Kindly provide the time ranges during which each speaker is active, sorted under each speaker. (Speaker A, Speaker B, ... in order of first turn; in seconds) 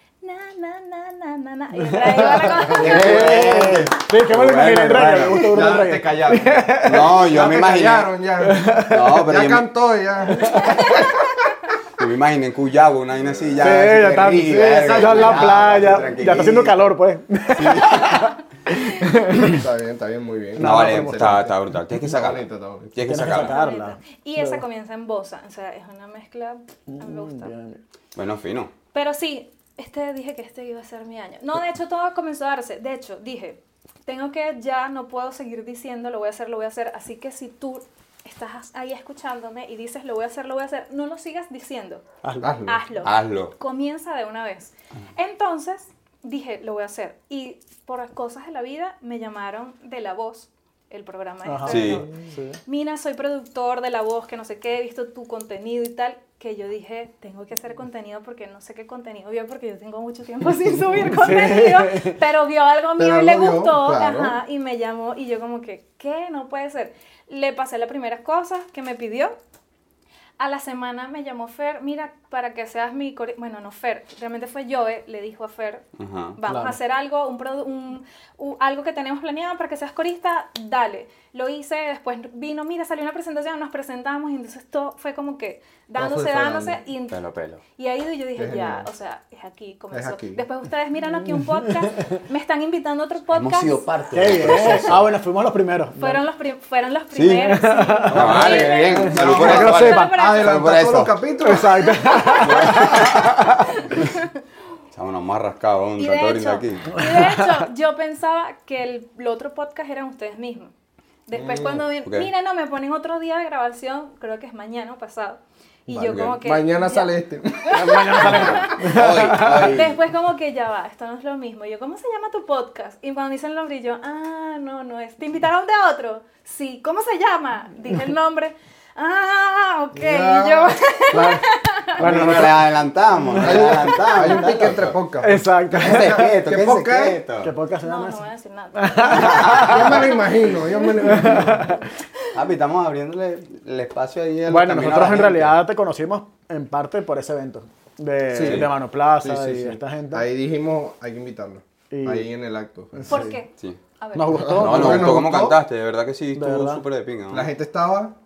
Speaker A: 0.2-3.2, 10.5-11.1, 23.3-27.5, 28.9-42.0, 42.6-69.3, 70.4-75.8, 76.4-87.2, 87.8-93.9, 96.0-100.6, 101.8-104.4, 106.0-110.7, 111.3-132.0, 137.8-142.3, 153.1-154.5
Speaker B: 1.7-7.2, 8.4-9.2, 10.4-10.8, 13.6-19.6, 20.6-21.5, 23.0-24.6, 26.9-27.8, 42.2-42.6, 51.4-52.6, 61.0-62.2, 76.5-76.8, 94.1-96.2, 97.4-100.2, 101.4-103.6, 107.0-107.7, 117.7-119.8, 131.1-133.8, 134.3-136.3, 137.4-138.2, 138.7-140.1, 141.0-141.8, 144.5-150.3, 151.9-152.3, 152.9-153.3, 154.1-155.3, 156.3-156.8
Speaker C: 2.5-5.8, 6.8-8.1, 8.8-9.7, 12.0-16.8, 17.5-18.3, 19.3-19.6, 20.6-23.6, 28.1-28.7, 43.0-43.5, 51.6-52.1, 76.0-76.4, 87.1-87.6, 93.3-95.1, 97.1-101.2, 102.4-103.5, 104.9-107.0, 116.1-116.4, 118.2-120.0, 132.0-135.0, 135.7-137.5, 139.1-139.8, 142.3-145.6, 148.4-148.7, 154.5-157.5
Speaker D: 2.9-3.7, 5.3-11.3, 13.5-13.8, 14.7-16.0, 19.2-21.5, 22.0-22.9, 42.4-42.8, 63.0-64.4, 86.0-86.8, 88.3-88.9, 89.9-90.4, 99.0-102.2, 111.3-111.9, 115.9-118.5, 129.9-130.8, 133.3-137.2, 139.5-141.8, 148.3-153.3, 154.4-155.6, 157.3-158.1